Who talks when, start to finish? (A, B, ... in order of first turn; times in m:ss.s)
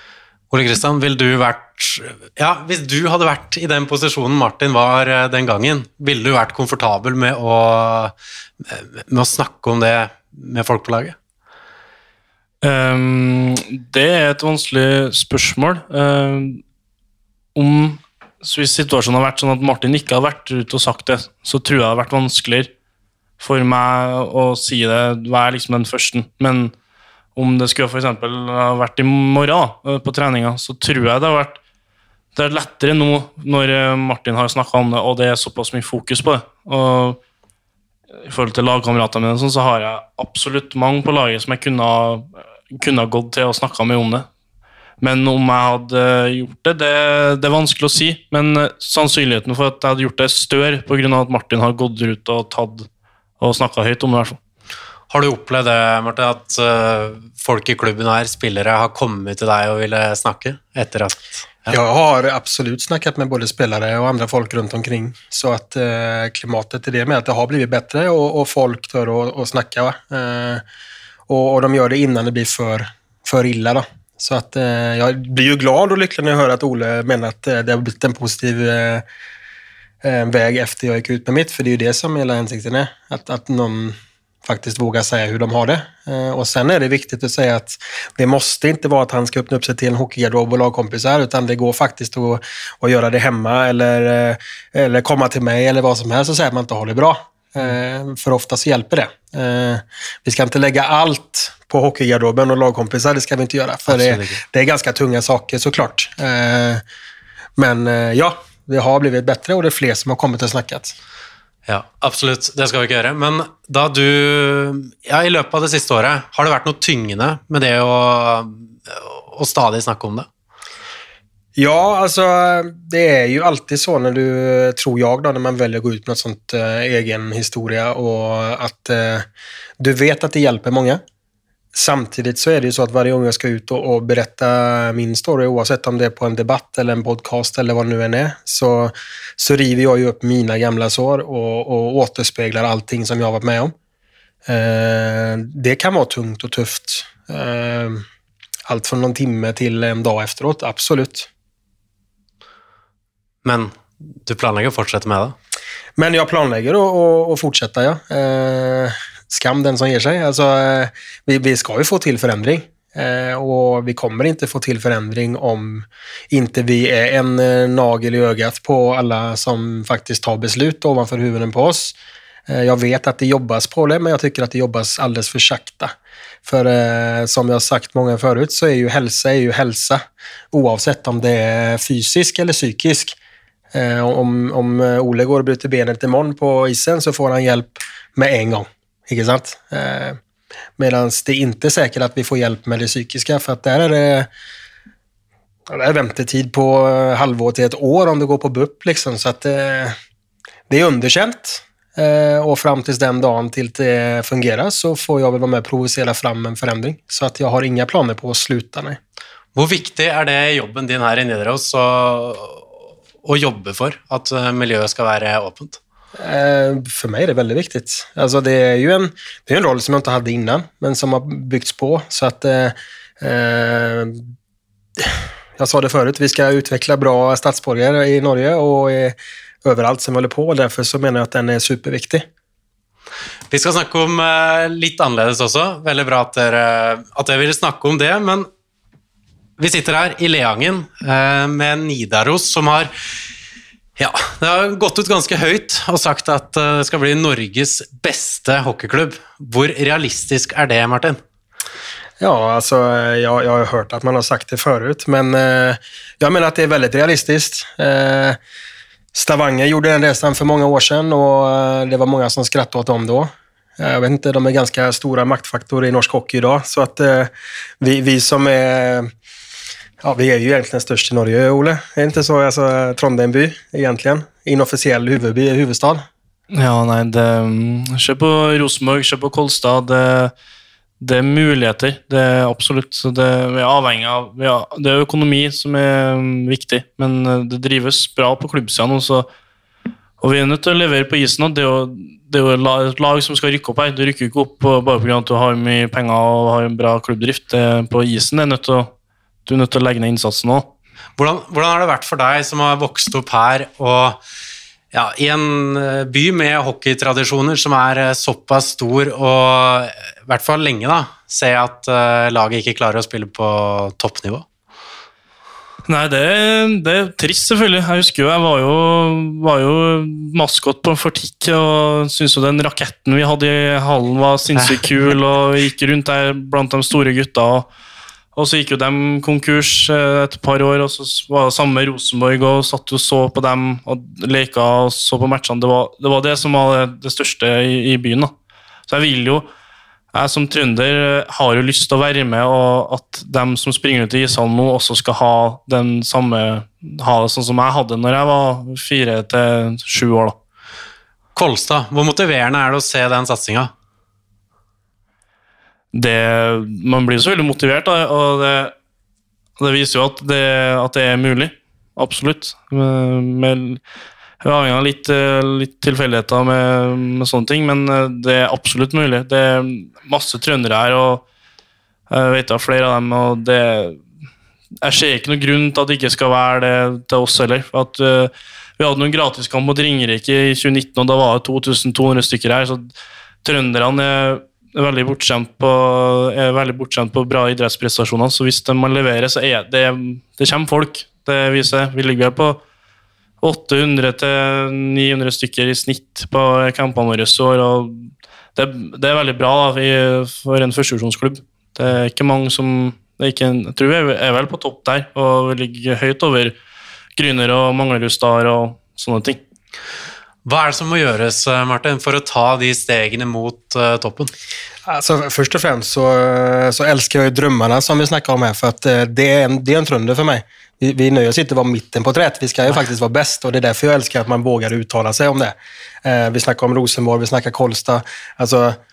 0:00.5-0:11.2 A
0:12.6-0:16.6 B
0:17.6-0:22.7 B
0:23.4-0:26.7 B
0:27.4-0:31.6 B
0:32.4-0:37.2 B
0:38.3-0:44.3 B
0:45.0-0:52.9 B
0:53.4-0:54.4 B
0:55.1-1:01.7 A
1:01.7-1:10.6 C
1:11.3-1:19.0 C
1:20.0-1:46.8 C
1:43.9-1:44.4 A
1:47.6-1:51.0 C
1:51.7-2:00.3 A
2:01.6-2:09.3 C
2:09.8-2:11.0 C
2:11.7-2:23.7 C
2:24.4-2:28.0 C
2:28.7-2:31.3 C
2:33.4-2:35.4 A
2:36.0-2:52.0 C
2:52.5-2:55.9 C
2:56.4-3:03.2 C
3:03.7-3:10.2 C
3:10.8-3:14.3 C
3:15.7-3:20.0 C
3:20.7-3:29.0 C
3:29.6-3:32.6 A
3:33.2-3:35.8 A
3:36.2-3:44.3 C
3:45.0-3:52.3 C
3:53.5-3:58.5 A
3:59.6-4:02.9 A
4:04.0-4:11.2 A
4:12.2-4:18.4 C
4:19.1-4:29.1 C
4:30.0-4:36.1 C
4:36.5-4:40.3 B
4:41.0-4:49.3 B
4:50.2-4:58.9 B
4:59.4-5:00.7 B
5:01.2-5:04.2 A
5:04.9-5:14.4 A
5:15.9-5:27.7 B
5:28.4-5:38.3 B
5:38.9-5:39.5 B
5:40.1-5:50.4 B
5:51.4-5:53.7 A
5:55.9-5:58.7 B
5:59.6-6:03.8 B
6:04.4-6:11.2 B
6:12.1-6:14.0 B
6:14.8-6:22.9 B
6:23.4-6:32.6 B
6:33.4-6:46.6 B
6:47.2-6:49.4 B
6:50.4-6:54.3 A
6:54.9-7:08.8 C